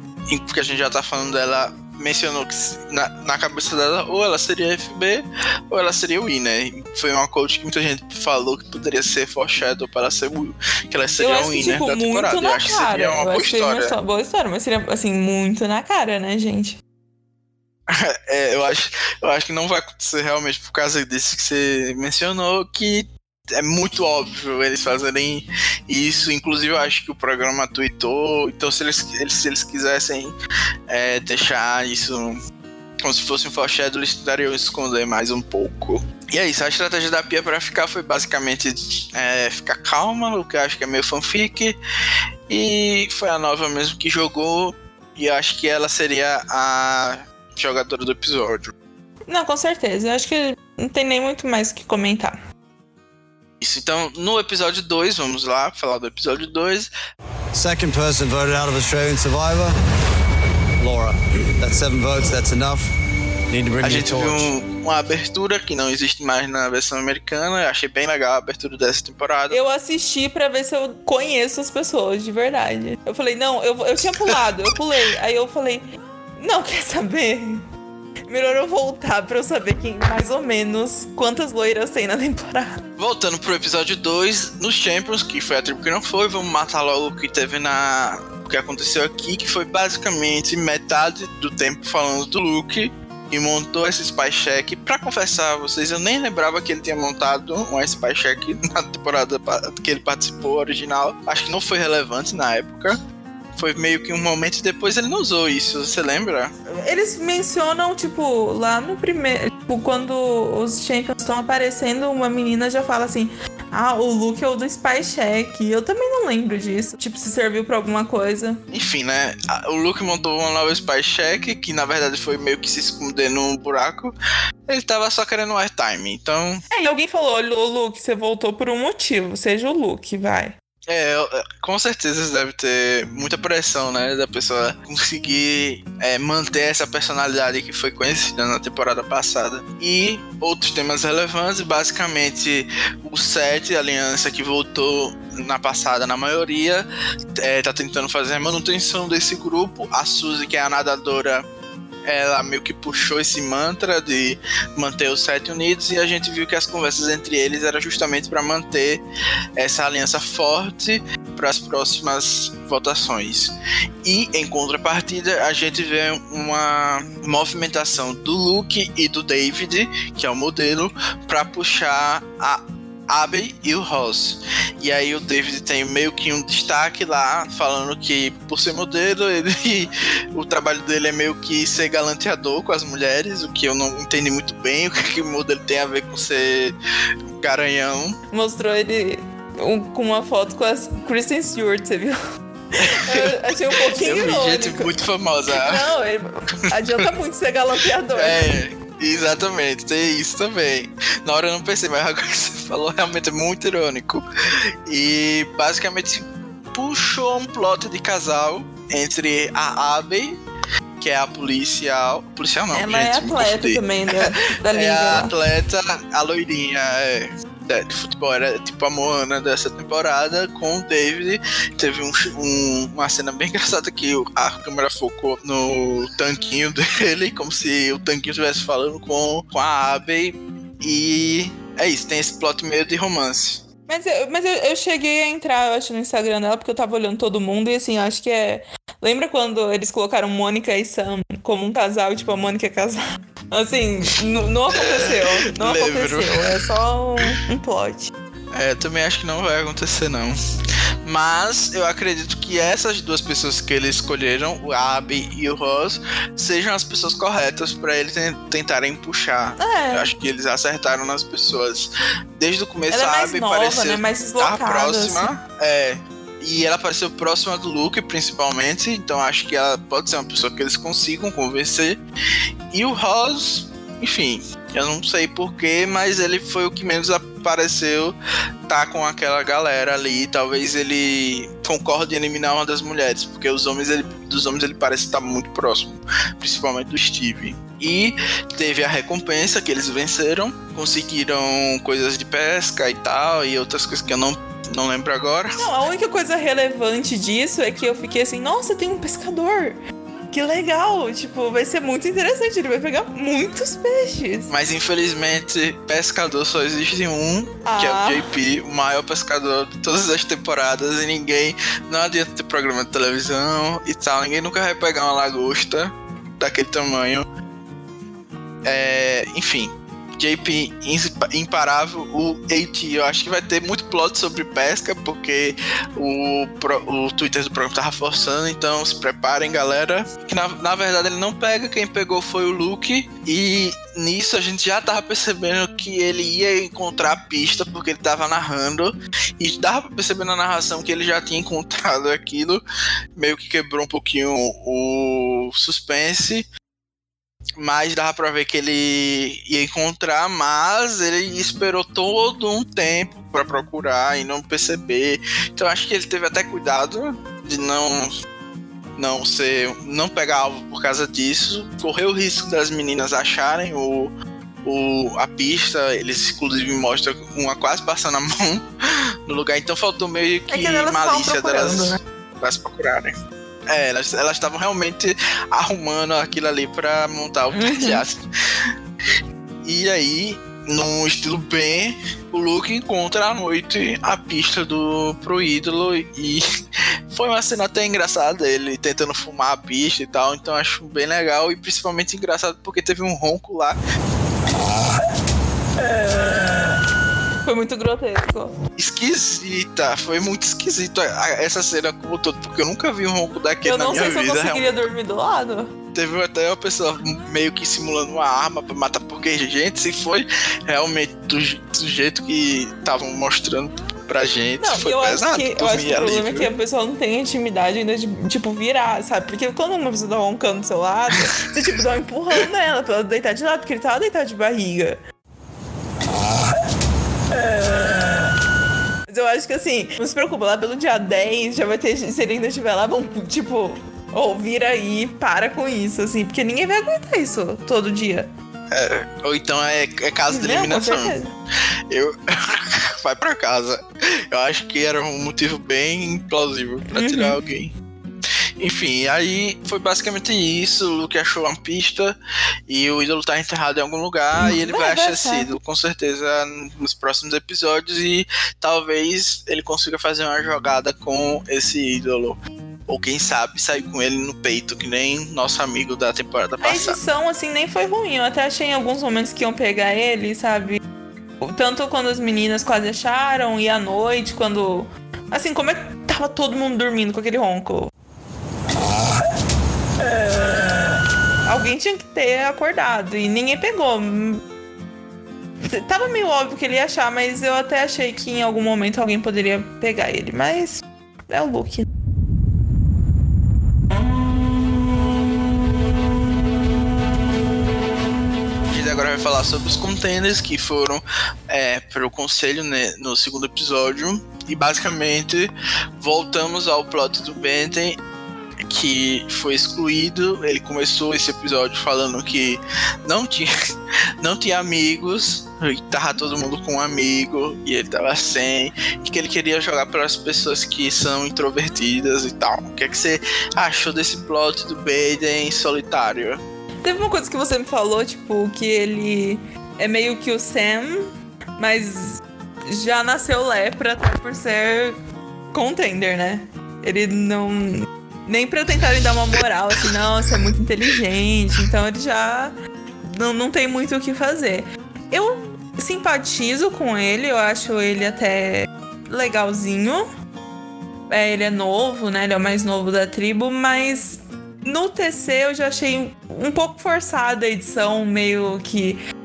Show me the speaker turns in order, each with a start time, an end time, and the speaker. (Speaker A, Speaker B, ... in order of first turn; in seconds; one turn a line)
Speaker A: 0.3-14.0
Speaker B: 11.2-16.8
Speaker A: 17.9-30.3
Speaker A: 30.9-32.4
Speaker A: 33.0-41.8
Speaker A: 42.5-48.7
Speaker B: 49.3-52.4
Speaker A: 53.6-56.9
Speaker C: 57.5-59.7
Speaker C: 60.8-62.9
Speaker C: 63.5-64.5
Speaker A: 63.8-69.6
Speaker B: 69.5-75.8
Speaker B: 76.4-77.6
Speaker B: 78.3-82.8
Speaker A: 83.0-103.0
Speaker A: 103.5-106.5
Speaker B: 106.7-118.6
Speaker A: 118.7-124.1
Speaker A: 124.7-126.6
Speaker B: 126.7-130.5
Speaker A: 130.9-146.8
Speaker A: 147.4-151.5
Speaker A: 152.1-159.0
Speaker A: 159.6-186.7
Speaker A: 187.4-188.2
Speaker B: 188.3-192.2
Speaker B: 192.7-194.9
Speaker A: 192.8-195.8
Speaker B: 195.5-198.4
Speaker A: 198.1-204.2
Speaker A: 204.9-210.4
Speaker A: 211.0-233.7
Speaker B: 212.7-215.3
Speaker B: 233.9-248.1
Speaker A: 244.7-246.5
Speaker A: 248.5-250.3
Speaker A: 251.0-272.0
Speaker B: 259.6-260.1
Speaker B: 262.9-265.3
Speaker A: 272.7-278.1
Speaker A: 278.7-295.7
Speaker B: 295.6-299.8
Speaker B: 300.3-304.5
Speaker A: 304.5-317.3
Speaker B: 307.6-308.3
Speaker A: 318.6-342.6
Speaker A: 343.1-346.5
Speaker A: 347.6-358.1
Speaker A: 358.9-364.1
Speaker A: 364.6-368.6
Speaker A: 369.3-373.1
Speaker B: 370.5-372.0
Speaker A: 373.7-378.2
Speaker B: 377.5-378.0
Speaker A: 379.6-386.4
Speaker A: 387.1-393.8
Speaker B: 397.4-398.5
Speaker A: 398.8-404.9
Speaker B: 403.6-405.7
Speaker A: 405.9-416.5
Speaker B: 414.2-425.0
Speaker B: 427.3-428.2
Speaker B: 429.1-438.3
Speaker A: 438.7-441.2
Speaker B: 440.3-441.3
Speaker A: 441.9-447.7
Speaker B: 446.9-447.4
Speaker A: 448.6-452.1
Speaker A: 452.7-467.0
Speaker B: 454.4-455.5
Speaker B: 466.6-470.8
Speaker B: 471.4-477.9
Speaker B: 481.4-484.4
Speaker B: 485.6-491.9
Speaker A: 498.7-508.0
Speaker A: 508.7-513.5
Speaker A: 514.2-526.4
Speaker B: 526.8-531.0
Speaker B: 531.6-535.0
Speaker B: 535.5-550.0
Speaker B: 551.1-559.0